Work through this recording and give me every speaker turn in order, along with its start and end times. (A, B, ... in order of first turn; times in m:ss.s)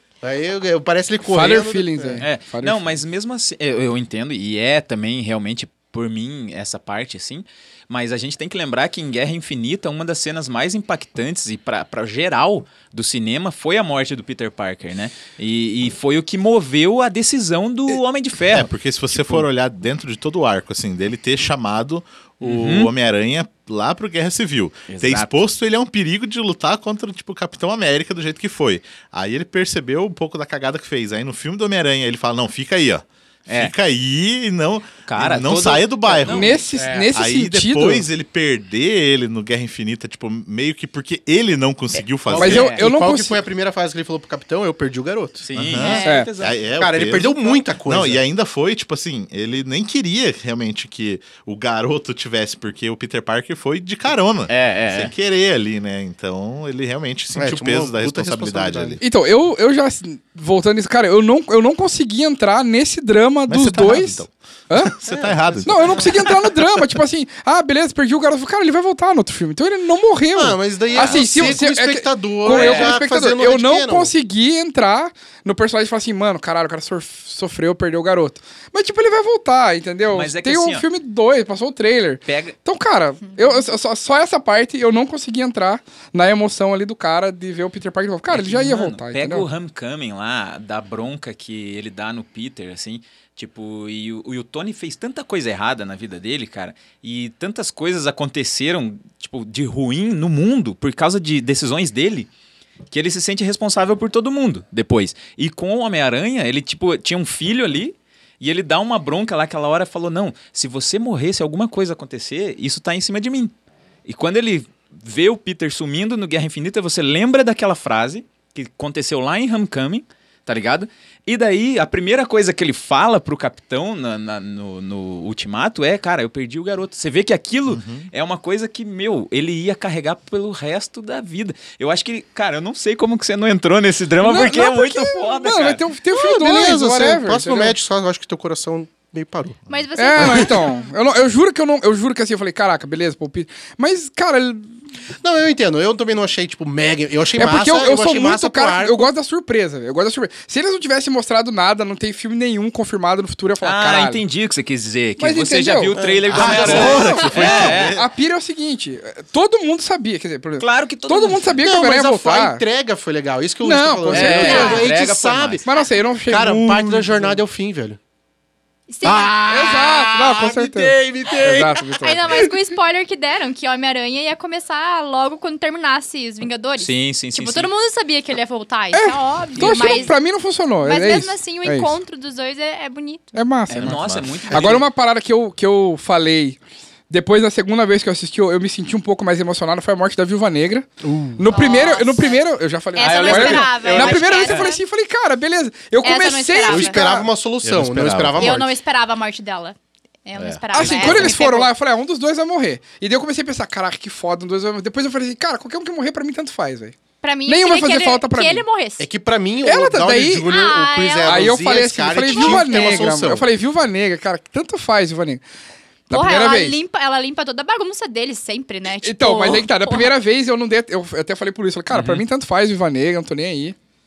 0:00.2-0:02.2 A
0:01.3-0:02.8 B
0:02.2-0:19.4 C
0:18.5-0:42.7 D
0:22.4-0:22.9 C
0:24.9-0:25.4 C
0:33.5-0:33.7 C
0:35.1-0:36.6 C
0:36.3-0:38.1 B
0:36.8-0:37.1 A
0:42.3-0:45.5 A
0:42.4-0:43.4 B
0:42.4-0:42.8 C
0:45.4-0:46.6 C
0:45.5-0:59.0 D
0:45.8-0:46.2 E
0:46.8-0:48.2 A
0:54.5-0:55.1 C
0:57.3-0:59.0 A
0:59.0-1:04.9 B
1:03.5-1:06.6 D
1:05.0-1:06.2 A
1:05.6-1:29.5 B
1:10.3-1:14.1 A
1:10.9-1:11.5 C
1:12.4-1:13.0 C
1:20.1-1:20.8 C
1:22.2-1:22.6 C
1:23.3-1:23.6 E
1:28.3-1:42.3 C
1:42.9-1:53.5 C
1:54.0-2:15.8 C
2:07.7-2:08.1 D
2:14.2-2:17.8 B
2:16.1-2:19.6 A
2:19.7-2:20.8 E
2:20.0-2:24.7 B
2:20.2-2:20.4 A
2:25.2-2:29.1 A
2:27.4-2:34.2 B
2:33.6-2:37.9 C
2:35.2-2:42.6 B
2:35.9-2:37.1 A
2:36.3-2:38.1 D
2:40.6-2:41.6 C
2:41.6-2:45.7 A
2:43.6-2:44.8 B
2:44.1-2:45.6 C
2:44.3-2:44.9 E
2:45.6-2:47.4 B
2:46.3-2:48.0 A
2:48.9-2:49.6 E
2:49.0-2:52.4 A
2:49.5-2:52.3 B
2:50.8-2:51.4 C
2:51.9-3:00.2 E
2:56.8-2:57.7 C
2:58.9-3:01.9 B
2:59.6-3:00.0 C
3:00.8-3:03.3 E
3:03.3-3:04.0 B
3:03.7-3:04.8 C
3:03.8-3:04.5 D
3:04.5-3:17.2 B
3:11.0-3:11.5 A
3:11.5-3:12.4 E
3:12.9-3:14.8 E
3:13.0-3:14.7 C
3:16.0-3:17.2 E
3:16.6-3:18.7 A
3:17.6-3:18.6 D
3:18.4-3:21.7 E
3:20.3-3:21.3 D
3:20.7-3:28.6 B
3:27.2-3:29.1 E
3:29.0-3:33.5 A
3:29.6-3:30.5 B
3:30.4-3:31.6 E
3:31.2-3:35.4 B
3:32.2-3:33.1 E
3:36.1-3:36.8 B
3:36.1-3:40.1 E
3:39.0-3:43.8 B
3:41.9-3:42.2 C